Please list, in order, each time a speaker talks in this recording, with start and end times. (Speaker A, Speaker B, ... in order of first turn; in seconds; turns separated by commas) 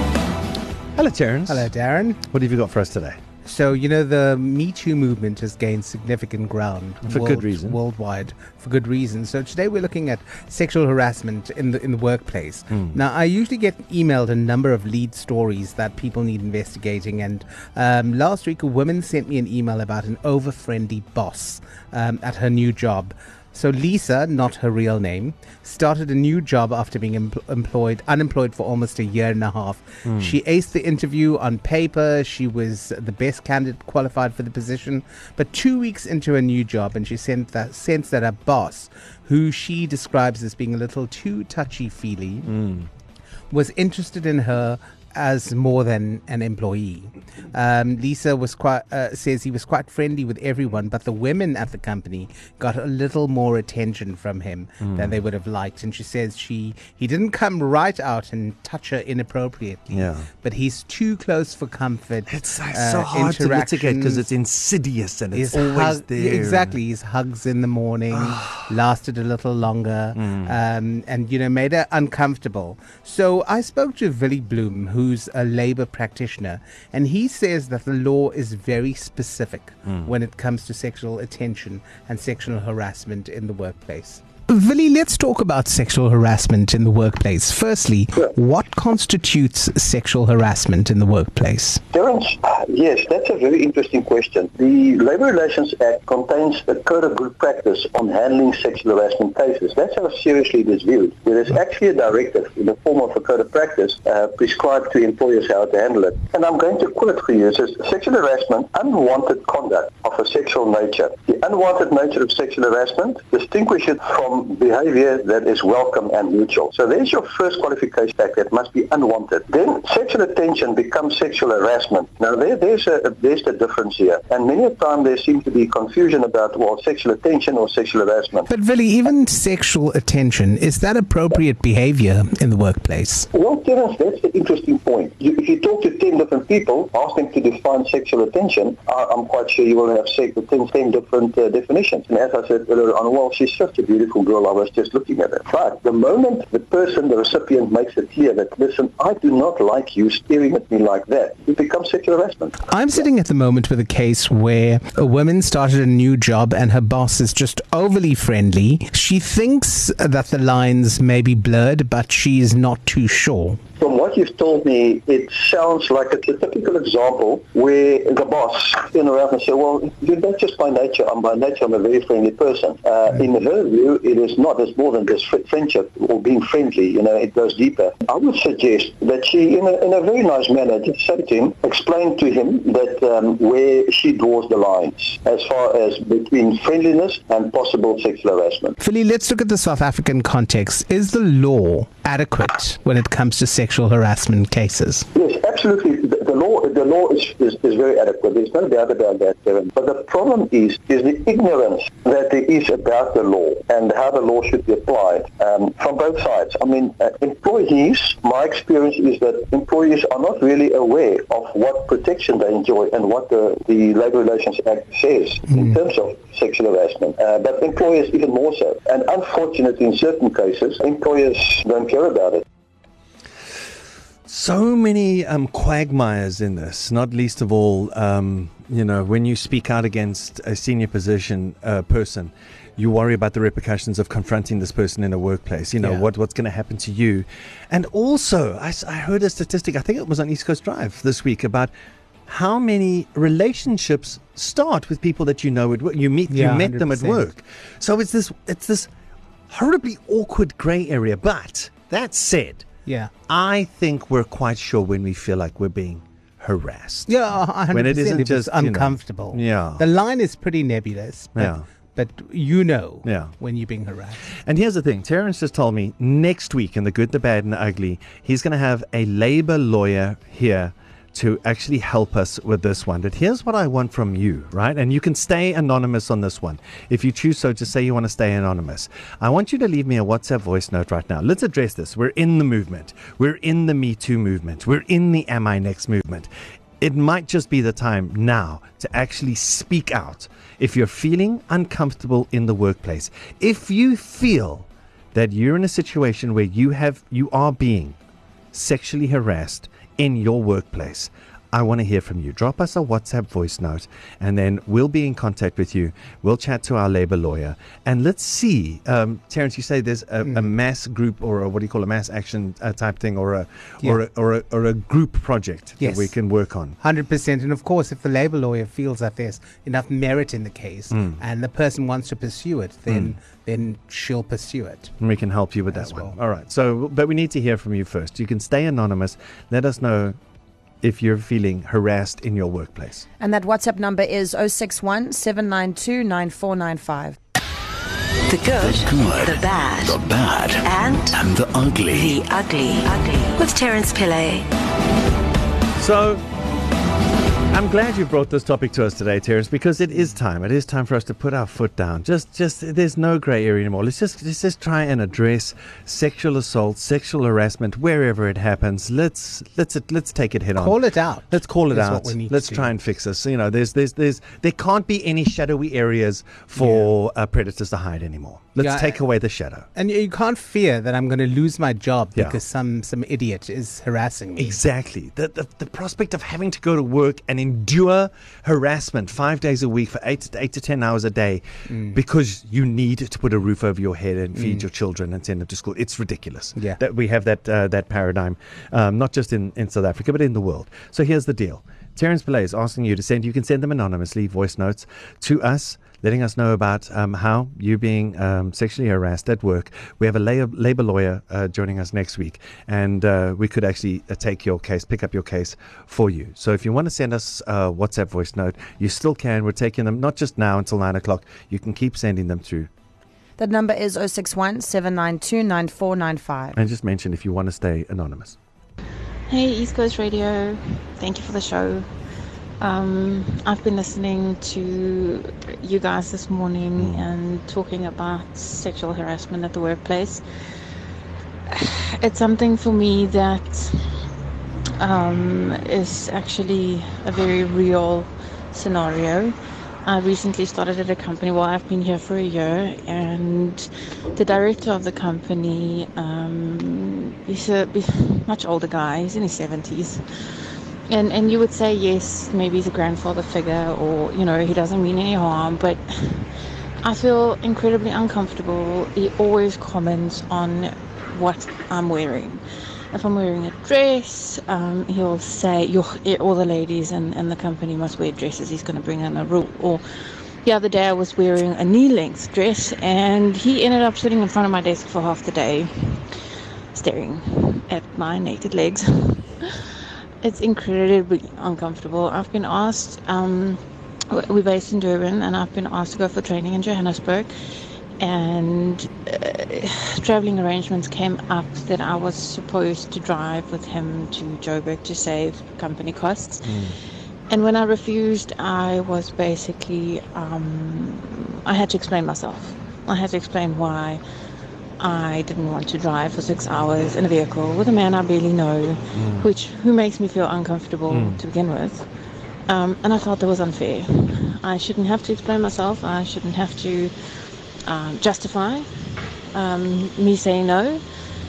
Speaker A: 0.9-1.7, Speaker B: 1.5-2.2, Speaker A: 2.2-3.2, Speaker B: 3.4-42.5, Speaker A: 7.0-7.8, Speaker A: 30.1-30.4, Speaker A: 42.5-42.9, Speaker B: 43.5-64.3, Speaker A: 54.8-55.1, Speaker A: 59.9-60.3, Speaker A: 62.3-66.8, Speaker B: 65.3-91.8, Speaker A: 68.1-68.5, Speaker A: 70.2-70.5, Speaker C: 91.9-128.5, Speaker B: 128.5-133.3, Speaker C: 133.3-152.7, Speaker B: 152.6-163.6, Speaker C: 163.8-188.8, Speaker B: 188.8-195.1, Speaker C: 195.2-222.4, Speaker A: 224.3-241.7, Speaker A: 242.3-248.9, Speaker B: 246.3-247.3, Speaker A: 249.5-252.7, Speaker B: 252.9-253.1, Speaker A: 253.3-257.1, Speaker B: 257.1-264.2, Speaker A: 257.7-259.8, Speaker A: 261.4-261.6, Speaker A: 263.1-263.4, Speaker A: 264.3-286.3, Speaker A: 286.8-298.0, Speaker A: 298.5-316.8, Speaker B: 315.8-316.2, Speaker B: 316.8-324.9, Speaker A: 320.9-321.2, Speaker A: 325.0-330.2, Speaker B: 325.7-326.2, Speaker A: 330.8-333.1, Speaker D: 333.2-337.2, Speaker E: 338.3-340.0, Speaker F: 338.5-342.3, Speaker E: 340.6-341.2, Speaker E: 341.9-344.5, Speaker A: 345.8-346.2, Speaker A: 347.5-360.8, Speaker B: 360.6-362.8, Speaker A: 361.3-369.7, Speaker B: 366.6-366.9, Speaker B: 368.6-369.0, Speaker B: 369.7-374.6, Speaker A: 374.4-412.7, Speaker B: 381.7-382.0, Speaker B: 384.4-384.6, Speaker D: 413.4-416.5, Speaker A: 416.6-418.4, Speaker G: 419.3-421.9, Speaker G: 422.6-430.2, Speaker A: 426.8-427.1, Speaker G: 431.5-434.1, Speaker G: 434.8-450.3, Speaker G: 450.9-462.4, Speaker G: 462.9-469.8, Speaker G: 470.4-476.2, Speaker G: 476.7-487.3, Speaker G: 488.0-496.6, Speaker A: 496.4-496.8, Speaker G: 497.3-504.0, Speaker G: 504.8-511.9, Speaker A: 508.9-509.3, Speaker A: 510.9-511.2, Speaker G: 512.5-516.9, Speaker G: 517.6-520.8